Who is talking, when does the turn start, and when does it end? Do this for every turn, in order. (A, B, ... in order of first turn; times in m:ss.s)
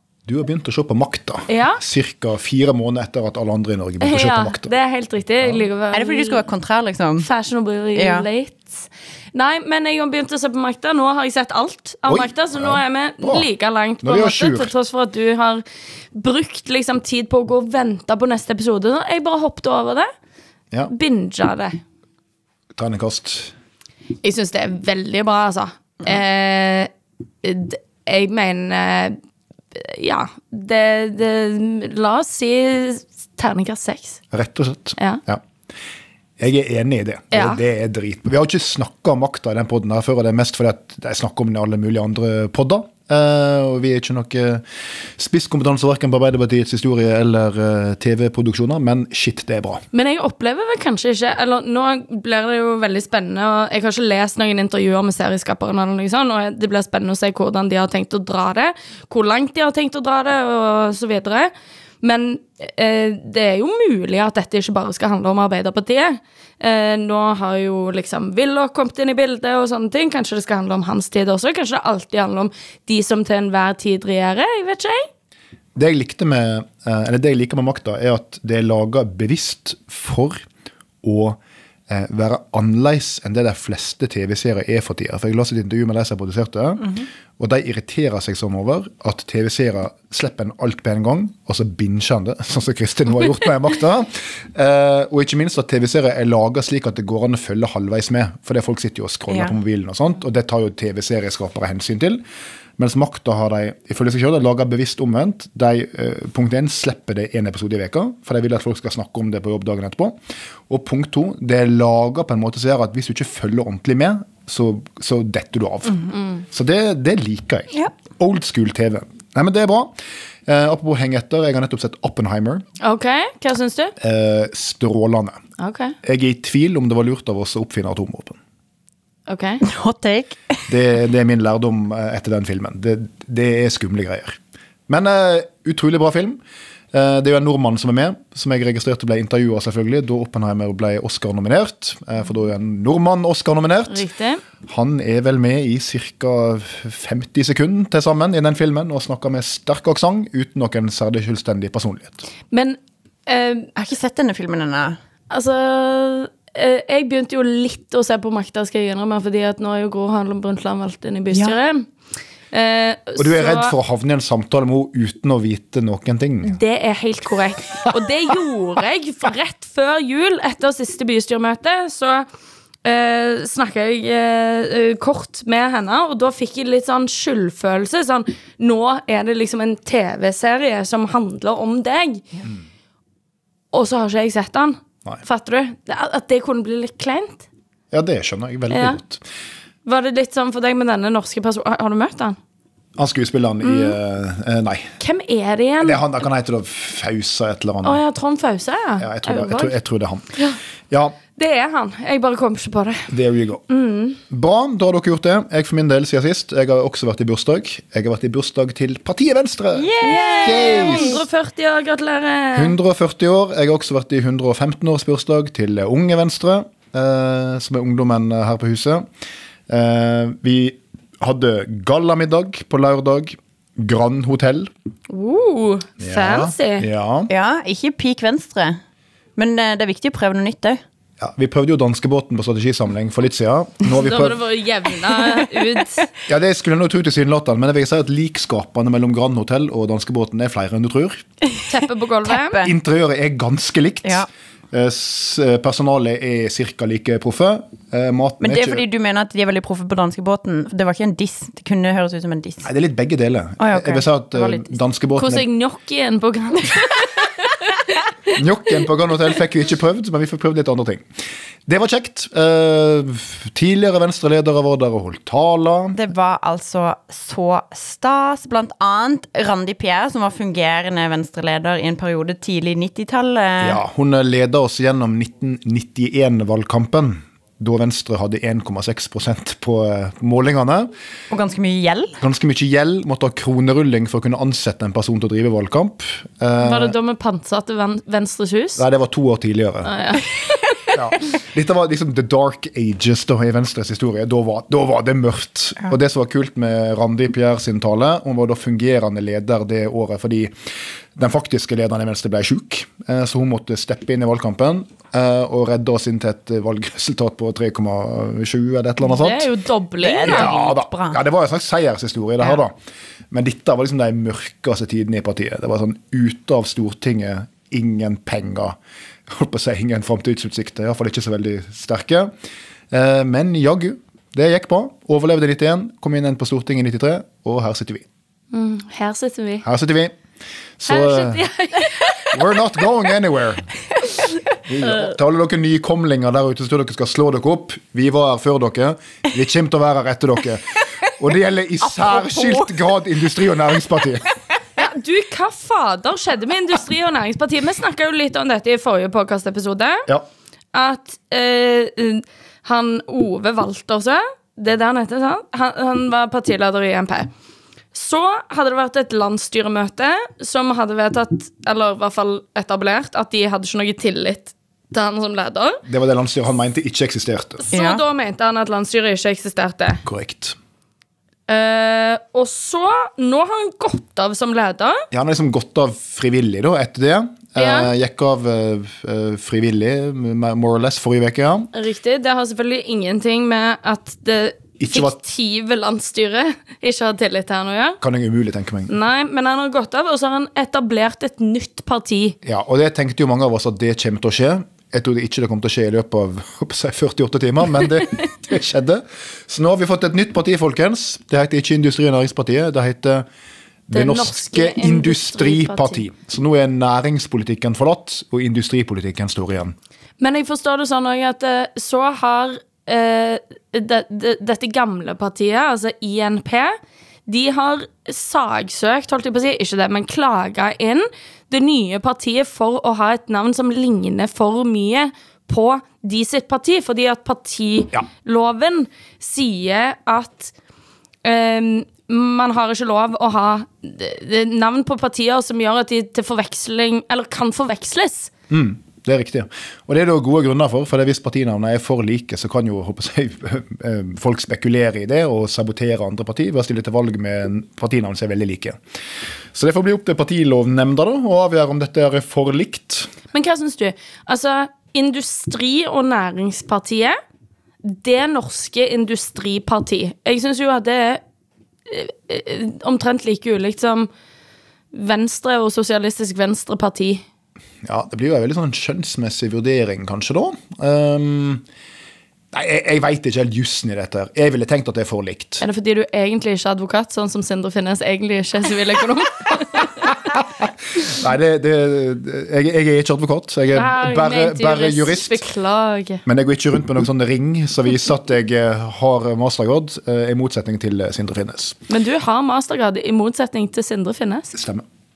0:00.3-0:04.7 A
0:01.5-0:01.8 B
0:04.0-0:06.4 B
0:05.9-0:07.3 C
0:07.2-0:15.6 B
0:08.0-0:08.3 C
0:12.1-0:13.5 A
0:14.0-0:14.7 A
0:16.2-0:20.1 B
0:20.9-0:21.8 B
0:22.8-0:23.5 A
0:24.2-0:26.9 B
0:27.4-0:29.2 B
0:29.7-0:34.2 B
0:34.3-0:35.4 A
0:36.4-0:49.8 A
0:37.3-0:37.6 B
0:49.9-1:15.1 B
1:15.8-1:20.4 A
1:21.0-1:42.2 A
1:39.3-1:39.6 C
1:42.8-1:50.2 A
1:50.7-2:00.0 A
2:00.5-2:02.6 A
2:02.8-2:03.9 B
2:04.0-2:05.4 A
2:05.6-2:06.0 B
2:06.0-2:08.4 A
2:09.3-2:09.6 B
2:09.6-2:10.7 C
2:10.7-2:14.4 A
2:14.9-2:16.4 A
2:16.9-2:24.1 A
2:23.9-2:24.4 B
2:24.7-2:32.2 A
2:32.5-2:33.7 B
2:33.8-2:35.0 C
2:35.3-2:41.9 B
2:41.3-2:41.6 C
2:42.5-2:43.7 B
2:43.2-2:46.6 A
2:46.4-2:52.3 B
2:52.8-3:02.2 B
3:03.7-3:07.5 B
3:07.9-3:09.2 A
3:08.7-3:09.0 B
3:09.8-3:12.4 B
3:13.0-3:14.9 A
3:13.6-3:14.0 B
3:15.0-3:16.0 B
3:15.8-3:18.0 A
3:17.8-3:19.8 B
3:19.0-3:20.2 A
3:20.9-3:21.2 A
3:21.4-3:23.1 B
3:23.1-3:23.6 A
3:23.7-3:24.2 B
3:24.3-3:31.2 A
3:29.8-3:31.2 C
3:30.0-3:32.7 B
3:32.6-3:39.0 A
3:39.7-3:44.7 A
3:45.1-3:46.9 B
3:46.0-3:47.3 A
3:47.3-3:48.8 C
3:49.4-3:50.8 C
3:51.2-3:54.4 A
3:53.9-3:56.1 B
3:56.3-4:01.2 A
4:01.7-4:02.6 B
4:02.2-4:02.7 C
4:02.6-4:08.8 A
4:08.4-4:12.7 C
4:12.6-4:15.4 A
4:13.6-4:14.8 C
4:15.2-4:17.5 B
4:18.3-4:21.0 A
4:21.7-4:26.0 A
4:26.0-4:33.8 C
4:33.6-4:40.9 A
4:41.3-4:42.2 C
4:42.2-4:47.0 A
4:46.6-4:48.8 B
4:48.8-4:49.9 A
4:49.8-4:50.3 B
4:50.9-5:00.5 A
5:01.2-5:09.5 A
5:09.0-5:10.8 B
5:10.0-5:11.2 C
5:10.2-5:12.7 A
5:13.3-5:18.8 A
5:19.3-5:22.3 A
5:22.9-5:28.1 A
5:28.5-5:29.6 B
5:29.6-5:30.2 A
5:30.8-5:31.4 A
5:30.9-5:32.3 B
5:32.3-5:33.7 A
5:34.7-5:44.3 A
5:41.9-5:42.8 C
5:44.8-5:50.1 B
5:50.7-5:57.3 B
5:57.9-6:05.8 B
6:05.8-6:07.7 A
6:07.7-6:10.0 B
6:07.7-6:08.0 C
6:10.0-6:10.6 A
6:11.5-6:15.0 B
6:15.1-6:21.7 A
6:17.6-6:17.9 B
6:21.7-6:28.0 B
6:24.8-6:25.1 A
6:28.0-6:28.9 A
6:28.9-6:32.4 B
6:32.4-6:43.3 A
6:43.9-6:49.8 A
6:43.9-6:46.0 B
6:50.2-6:56.8 B
6:57.3-7:10.5 B
7:11.2-7:18.3 B
7:18.5-7:28.8 A
7:29.5-7:33.1 A
7:33.3-7:37.2 B
7:37.8-7:41.2 B
7:41.9-7:44.1 B
7:44.9-7:47.2 B
7:47.8-7:51.6 A
7:52.5-7:55.6 A
7:55.6-8:00.1 B
8:00.1-8:05.4 A
8:03.7-8:06.2 B
8:06.2-8:11.8 A
8:11.9-8:14.6 B
8:14.5-8:14.8 A